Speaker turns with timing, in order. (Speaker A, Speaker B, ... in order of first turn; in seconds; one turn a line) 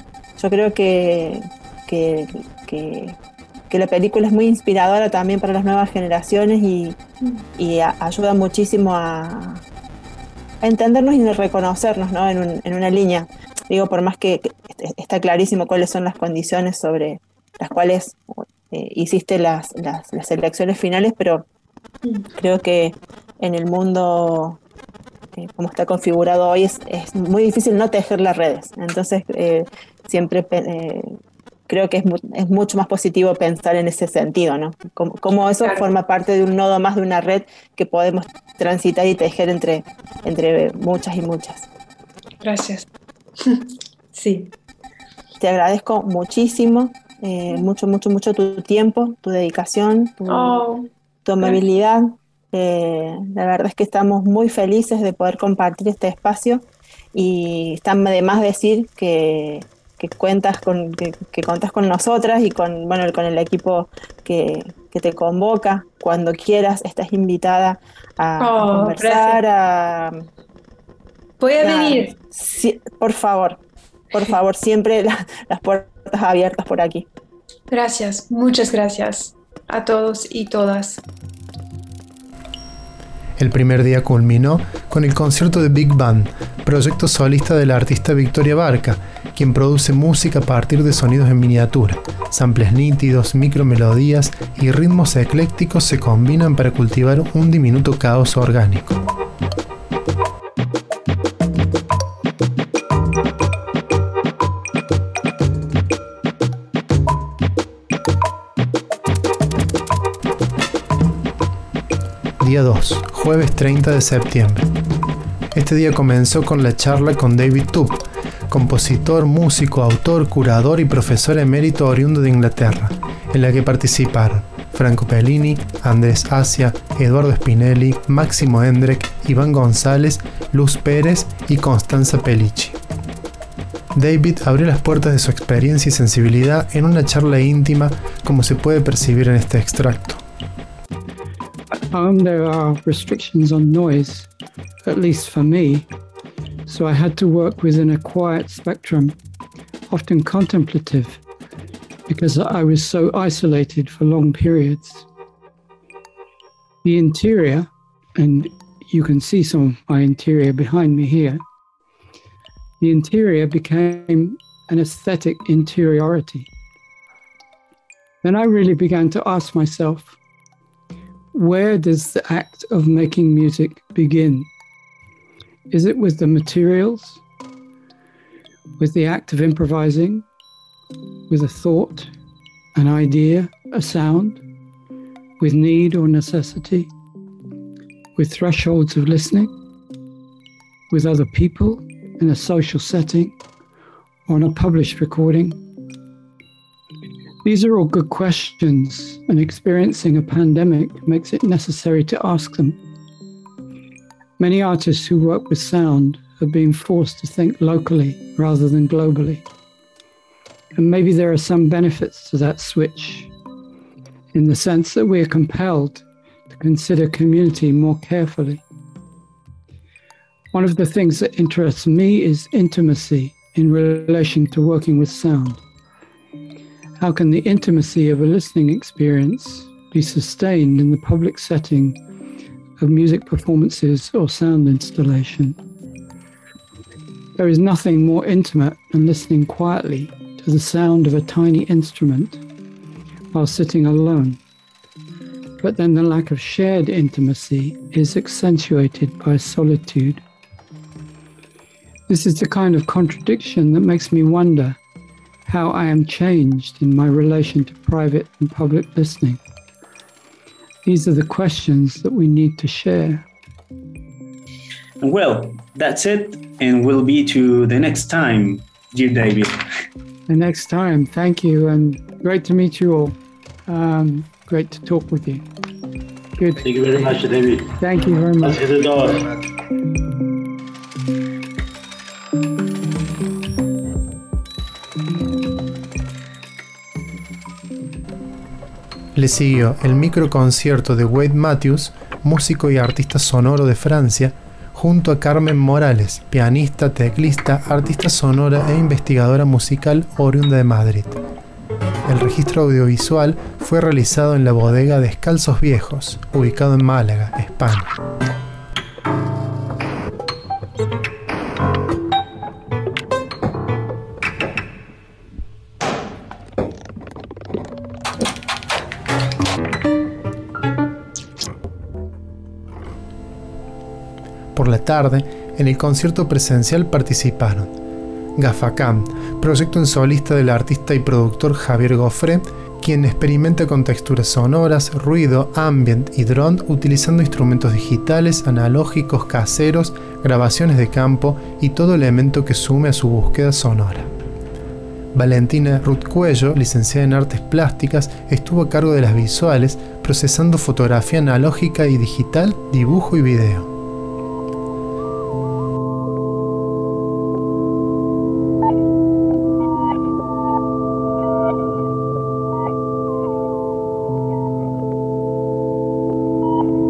Speaker A: 0.4-3.2
Speaker A: 3.7-7.0
Speaker A: 7.6-9.6
Speaker A: 10.6-21.5
Speaker A: 22.4-24.6
Speaker A: 25.4-31.1
Speaker A: 31.7-41.7
Speaker B: 35.6-35.9
Speaker B: 42.4-42.9
Speaker B: 43.4-44.5
Speaker A: 45.4-50.6
Speaker B: 50.3-50.9
Speaker A: 51.2-70.2
Speaker B: 68.4-69.4
Speaker B: 71.4-72.1
Speaker A: 71.6-73.6
Speaker A: 74.1-77.1
Speaker B: 77.7-81.0
Speaker C: 83.4-99.1
Speaker C: 112.4-114.7
Speaker C: 115.5-132.8
Speaker C: 133.9-140.2
Speaker D: 141.9-144.3
Speaker D: 144.8-145.9
Speaker D: 146.7-149.2
Speaker D: 149.9-151.2
Speaker D: 152.1-155.1
Speaker D: 156.8-161.4
Speaker D: 162.8-166.5
Speaker D: 168.2-170.2
Speaker D: 171.3-174.5
Speaker D: 175.7-177.2
Speaker D: 178.8-180.2
Speaker D: 181.3-182.1
Speaker D: 182.8-184.4
Speaker D: 185.4-186.9
Speaker D: 188.2-189.5
Speaker D: 190.9-193.4
Speaker D: 194.3-195.6
Speaker D: 197.4-202.8
Speaker D: 204.4-209.5
Speaker D: 210.8-213.3
Speaker D: 214.3-218.7
Speaker D: 220.5-225.6
Speaker D: 227.0-232.0
Speaker D: 232.8-235.6
Speaker D: 237.4-242.4
Speaker D: 243.3-244.4
Speaker D: 245.6-250.2
Speaker D: 252.1-254.8
Speaker D: 255.5-259.4
Speaker D: 260.9-263.3
Speaker E: 265.0-269.6
Speaker D: 270.3-275.4
Speaker D: 276.4-276.7
Speaker F: 276.6-277.7
Speaker D: 277.8-278.6
Speaker F: 278.4-279.3
Speaker C: 289.1-301.2
Speaker C: 302.1-307.9
Speaker C: 324.6-327.7
Speaker C: 328.4-344.1
Speaker C: 345.1-353.7